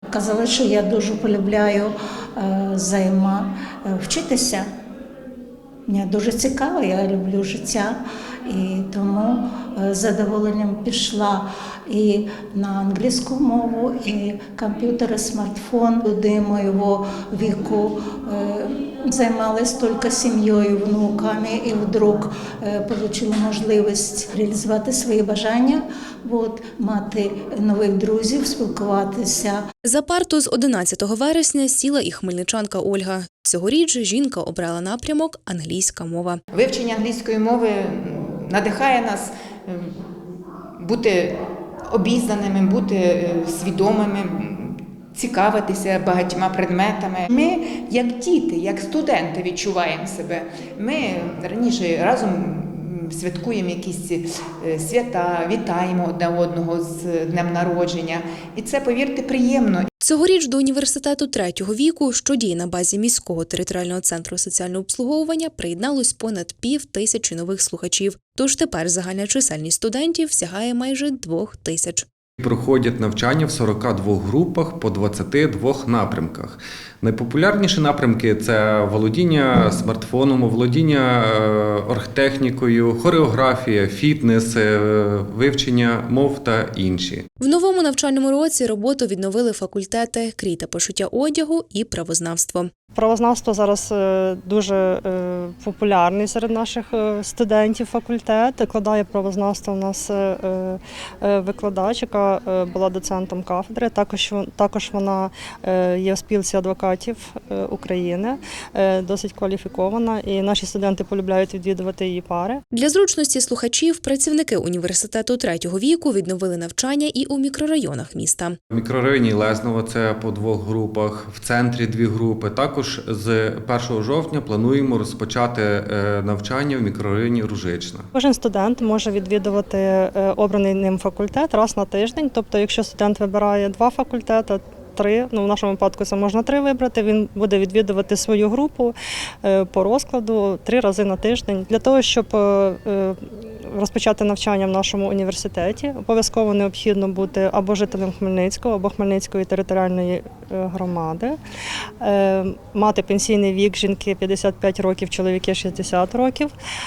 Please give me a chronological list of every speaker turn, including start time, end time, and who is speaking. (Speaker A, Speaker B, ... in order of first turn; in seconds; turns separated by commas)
Speaker A: 0.1-4.6, Speaker A: 5.9-29.6, Speaker B: 29.8-36.4, Speaker C: 36.5-40.0, Speaker C: 40.8-41.4, Speaker C: 41.9-59.9, Speaker B: 60.0-72.0, Speaker D: 72.4-87.2, Speaker B: 87.4-92.7, Speaker E: 92.9-112.6, Speaker B: 112.7-118.6, Speaker D: 118.7-128.1, Speaker E: 128.1-151.4, Speaker E: 152.0-156.5